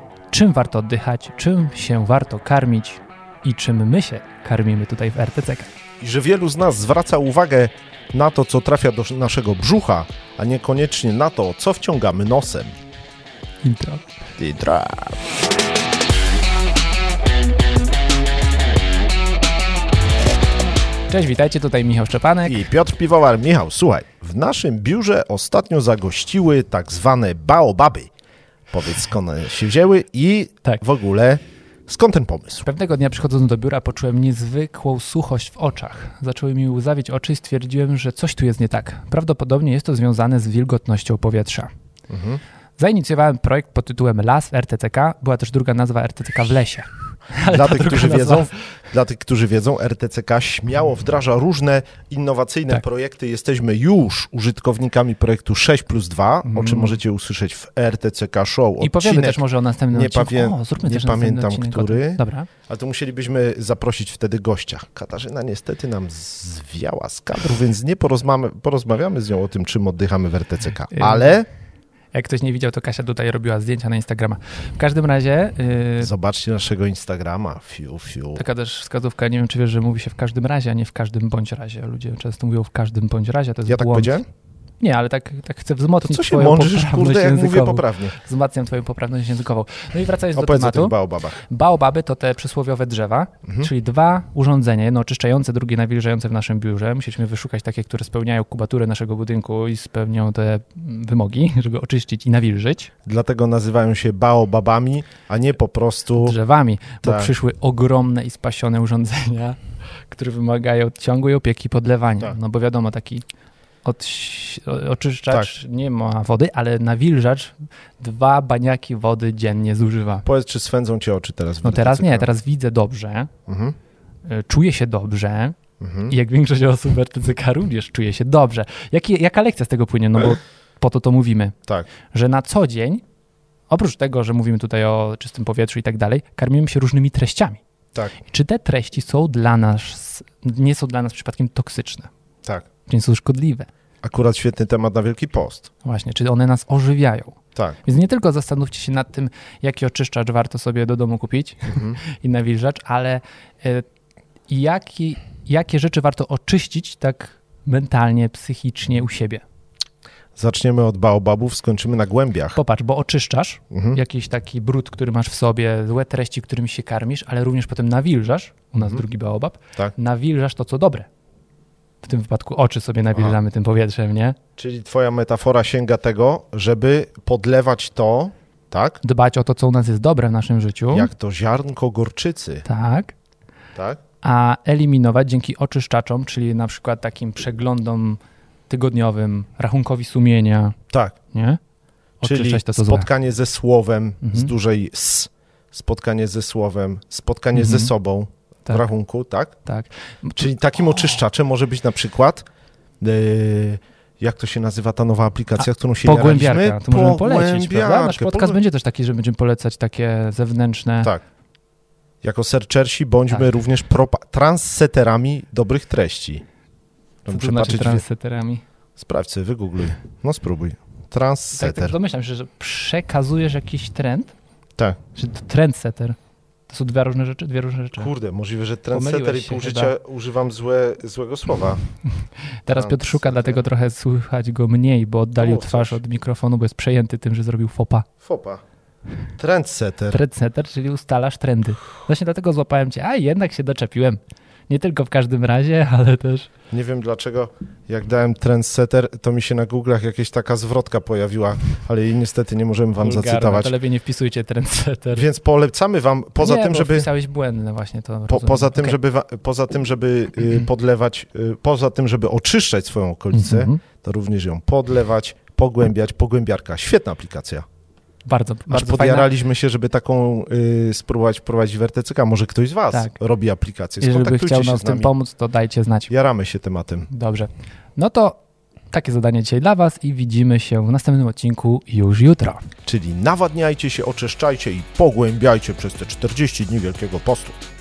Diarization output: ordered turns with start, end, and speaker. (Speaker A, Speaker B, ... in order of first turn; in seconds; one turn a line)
Speaker A: 0.3-5.7
Speaker B: 6.0-12.7
Speaker A: 13.6-14.1
Speaker B: 14.4-15.2
Speaker A: 21.1-22.6
Speaker B: 22.4-28.1
Speaker B: 28.7-32.6
Speaker A: 32.6-41.7
Speaker B: 42.1-42.4
Speaker A: 42.8-48.5
Speaker B: 47.4-59.4
Speaker A: 56.5-57.0
Speaker A: 58.8-62.5
Speaker B: 59.9-71.5
Speaker A: 70.9-71.3
Speaker A: 72.1-76.1
Speaker B: 76.0-78.4
Speaker A: 78.4-84.2
Speaker B: 83.7-84.2
Speaker A: 84.8-102.9
Speaker B: 86.0-88.2
Speaker B: 90.4-91.4
Speaker B: 103.0-106.4
Speaker A: 106.2-113.2
Speaker B: 107.0-107.3
Speaker A: 113.8-120.2
Speaker B: 120.2-122.3
Speaker A: 121.6-123.3
Speaker B: 123.5-123.8
Speaker A: 124.3-131.6
Speaker B: 125.8-126.1
Speaker A: 132.1-133.0
Speaker A: 133.7-137.6
Speaker A: 138.2-142.1
Speaker A: 142.9-143.7
Speaker B: 144.0-145.7
Speaker A: 145.8-153.9
Speaker B: 151.7-152.0
Speaker A: 154.5-159.4
Speaker B: 160.4-162.6
Speaker A: 162.6-171.1
Speaker B: 163.7-164.0
Speaker B: 168.8-169.0
Speaker A: 172.0-174.4
Speaker B: 174.6-179.0
Speaker A: 179.0-181.1
Speaker B: 180.9-182.7
Speaker A: 182.7-183.1
Speaker B: 183.8-184.0
Speaker A: 184.2-190.8
Speaker A: 191.3-191.6
Speaker A: 192.2-193.1
Speaker B: 192.2-199.6
Speaker A: 194.2-194.5
Speaker A: 197.5-197.9
Speaker A: 199.7-200.5
Speaker B: 200.4-202.4
Speaker B: 203.0-208.6
Speaker A: 205.6-211.1
Speaker B: 212.2-216.4
Speaker B: 217.2-218.0
Speaker A: 217.3-218.6
Speaker B: 219.0-221.9
Speaker A: 221.5-224.3
Speaker A: 225.2-226.2
Speaker A: 226.7-228.1
Speaker B: 228.0-231.8
Speaker A: 228.9-229.9
Speaker A: 232.7-238.1
Speaker B: 232.7-233.6
Speaker B: 235.4-236.0
Speaker B: 238.2-238.6
Speaker B: 239.4-240.2
Speaker A: 240.1-246.5
Speaker B: 246.7-253.7
Speaker A: 253.0-255.3
Speaker B: 255.1-257.1
Speaker A: 256.4-258.9
Speaker B: 258.3-267.6
Speaker A: 263.3-263.8
Speaker A: 268.2-269.3
Speaker B: 268.7-275.1
Speaker A: 274.0-276.1
Speaker B: 276.1-277.1
Speaker A: 277.1-278.4
Speaker A: 278.9-282.6
Speaker B: 282.9-287.6